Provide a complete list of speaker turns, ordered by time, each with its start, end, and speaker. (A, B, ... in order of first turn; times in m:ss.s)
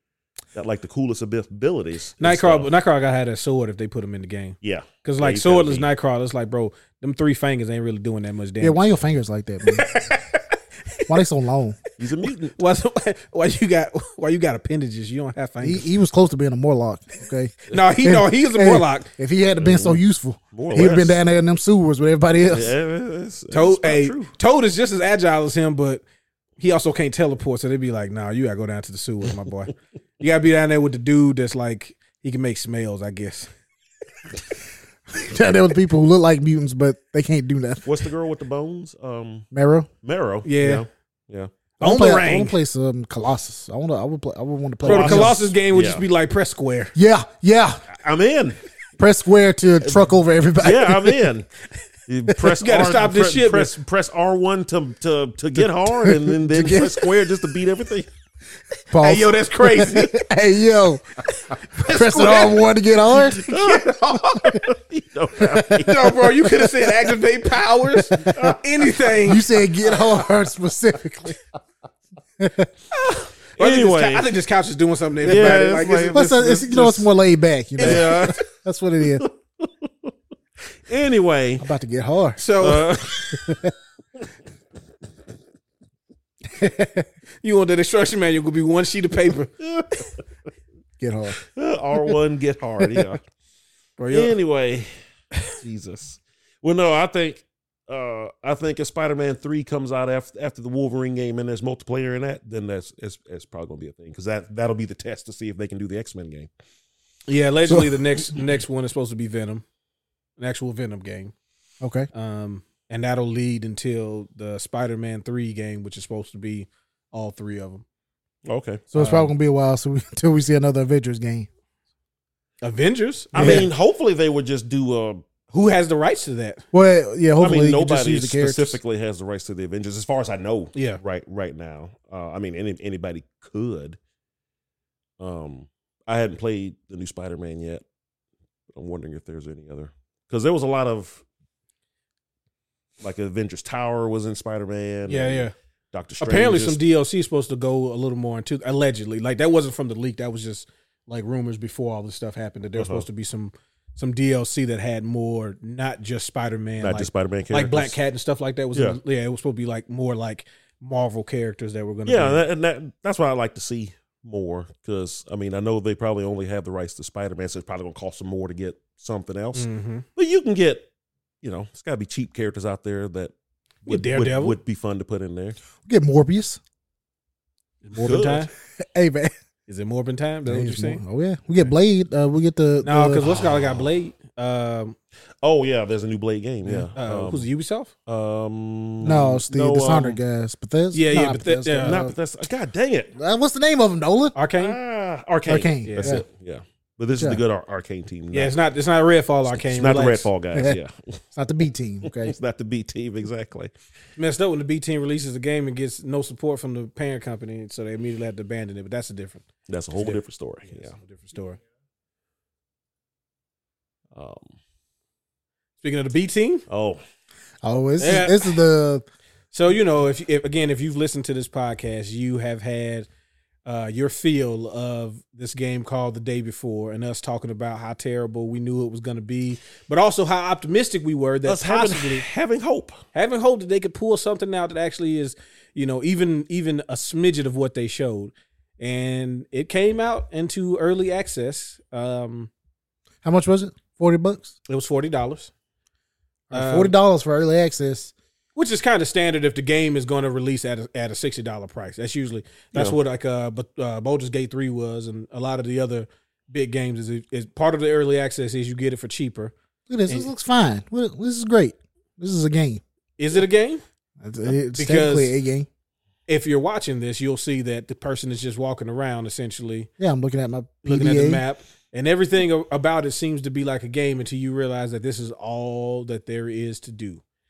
0:00.6-0:02.7 A
0:02.2-0:08.8 B
0:04.6-0:05.9 A
0:08.6-0:09.9 C
0:09.7-0:11.1 B
0:11.1-0:11.8 C
0:12.0-0:12.6 A
0:12.6-0:15.9 B
0:15.6-0:22.7 C
0:17.7-0:19.1 B
0:19.6-0:20.0 A
0:20.5-0:21.2 A
0:22.4-0:24.3 A
0:23.5-0:26.0 B
0:26.6-0:33.5 B
0:35.1-0:38.0 C
0:37.9-0:39.5 A
0:39.5-0:39.9 C
0:40.0-0:41.5 A
0:40.4-0:40.8 B
0:41.8-0:42.6 B
0:41.8-0:45.5 C
0:44.8-0:46.0 A
0:44.8-0:46.9 B
0:47.0-0:47.8 C
0:47.9-0:48.6 A
0:49.0-0:51.3 C
0:50.6-0:51.5 A
0:52.1-0:58.1 A
0:52.6-0:53.7 B
0:55.6-0:57.3 C
0:58.9-1:01.2 C
0:59.0-1:00.3 B
1:01.3-1:04.6 B
1:01.8-1:03.4 C
1:03.3-1:06.1 A
1:05.4-1:06.0 C
1:05.8-1:09.5 B
1:07.9-1:08.6 C
1:09.2-1:11.4 C
1:12.4-1:12.7 C
1:13.0-1:14.3 A
1:13.6-1:17.0 B
1:15.2-1:17.0 A
1:15.3-1:15.6 C
1:16.1-1:19.2 C
1:17.8-1:18.4 B
1:17.8-1:18.4 A
1:19.2-1:20.1 A
1:20.9-1:21.7 A
1:21.6-1:22.4 C
1:22.4-1:22.9 B
1:22.6-1:23.6 A
1:23.3-1:23.7 C
1:26.5-1:27.1 C
1:27.4-1:29.5 B
1:29.6-1:30.0 A
1:31.0-1:31.4 C
1:31.5-1:33.2 A
1:32.8-1:33.1 C
1:34.0-1:34.3 B
1:34.1-1:34.9 A
1:35.5-1:46.5 A
1:47.3-1:49.6 B
1:50.4-1:51.3 B
1:51.8-1:52.1 C
1:52.1-1:57.8 B
1:58.4-1:58.8 A
1:58.9-2:01.5 C
1:59.0-1:59.3 B
2:02.6-2:03.7 B
2:03.4-2:03.7 C
2:03.4-2:05.2 A
2:05.5-2:06.6 B
2:06.7-2:08.8 C
2:07.4-2:14.0 A
2:10.7-2:11.0 B
2:15.2-2:17.8 A
2:18.7-2:21.2 A
2:23.0-2:26.8 A
2:25.1-2:25.5 B
2:26.2-2:42.4 B
2:32.8-2:33.1 A
2:36.8-2:38.0 A
2:42.1-2:50.9 A
2:49.6-2:50.1 B
2:51.4-2:53.3 A
2:53.8-2:55.6 A
2:53.9-2:54.6 B
2:55.8-2:56.6 C
2:57.8-2:58.5 B
2:58.0-2:58.5 A
2:58.8-2:59.3 C
2:59.7-3:01.0 B
3:00.5-3:03.4 C
3:02.8-3:05.0 B
3:05.4-3:07.5 A
3:06.9-3:07.9 B
3:08.1-3:10.2 A
3:09.0-3:12.1 C
3:10.9-3:12.0 B
3:11.8-3:13.1 A
3:13.1-3:14.4 C
3:14.4-3:14.8 B
3:14.6-3:18.6 A
3:15.5-3:16.2 C
3:15.8-3:16.2 B
3:17.2-3:17.4 C
3:18.3-3:20.3 B
3:19.5-3:21.2 A
3:20.5-3:20.8 C
3:21.4-3:22.4 C
3:22.0-3:23.7 A
3:24.2-3:31.6 B
3:29.7-3:30.9 A
3:34.1-3:34.6 A
3:35.8-3:36.6 B
3:36.7-3:37.0 A
3:37.6-3:39.0 C
3:38.0-3:38.6 B
3:39.5-3:43.1 B
3:43.6-3:52.2 B
3:51.4-3:53.0 A
3:53.1-4:02.5 B
4:03.2-4:04.5 C
4:04.7-4:05.5 B
4:06.5-4:08.1 C
4:06.5-4:07.0 B
4:08.6-4:19.5 B
4:19.9-4:22.8 C
4:20.1-4:20.3 B
4:23.2-4:23.8 B
4:24.2-4:25.7 C
4:24.8-4:25.4 B
4:26.3-4:29.9 B
4:30.0-4:31.4 C
4:30.8-4:37.2 B